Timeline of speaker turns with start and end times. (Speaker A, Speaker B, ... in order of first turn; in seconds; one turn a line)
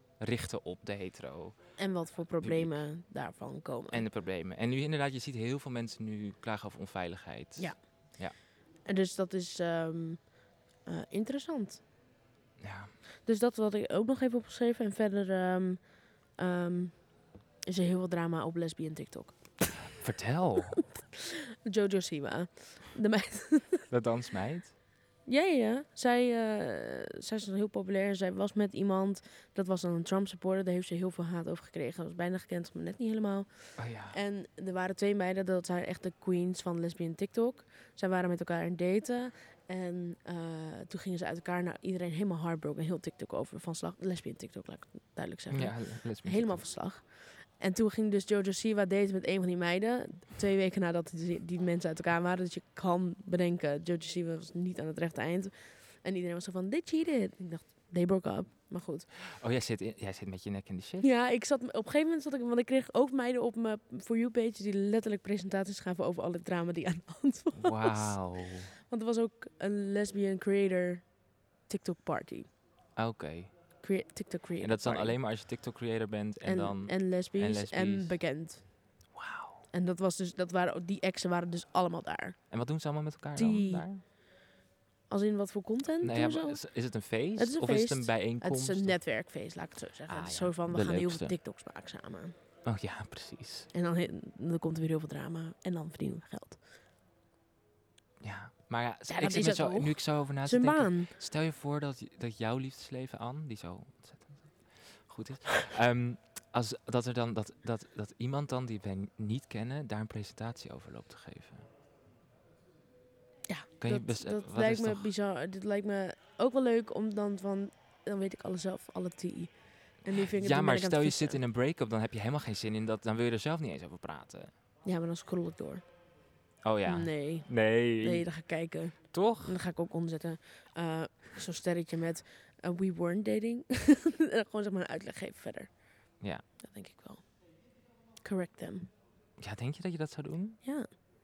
Speaker A: 0.2-2.8
Speaker B: 1.8-4.1
Speaker A: 3.9-8.4
Speaker B: 7.6-11.8
Speaker A: 12.6-12.9
Speaker B: 13.2-19.7
Speaker A: 20.0-20.8
Speaker B: 20.9-23.9
Speaker A: 23.9-24.8
Speaker B: 25.3-59.1
Speaker A: 33.8-34.2
Speaker A: 45.5-46.6
Speaker A: 59.4-61.1
Speaker B: 61.0-72.5
Speaker A: 67.6-68.7
Speaker A: 73.0-73.5
Speaker B: 73.8-75.2
Speaker A: 74.6-78.2
Speaker B: 76.4-78.8
Speaker A: 79.1-79.7
Speaker B: 79.7-82.4
Speaker A: 82.5-84.0
Speaker B: 83.4-84.2
Speaker B: 85.1-92.4
Speaker A: 86.0-89.0
Speaker A: 90.1-91.4
Speaker A: 92.7-93.7
Speaker B: 93.7-96.6
Speaker A: 98.2-111.7
Speaker B: 99.1-101.1
Speaker B: 113.5-121.4
Speaker A: 113.8-115.1
Speaker A: 120.1-124.5
Speaker B: 124.9-125.9
Speaker A: 126.6-128.3
Speaker B: 126.9-136.1
Speaker A: 129.1-129.6
Speaker B: 136.6-137.4
Speaker B: 138.2-138.9
Speaker A: 139.4-140.6
Speaker B: 140.6-140.9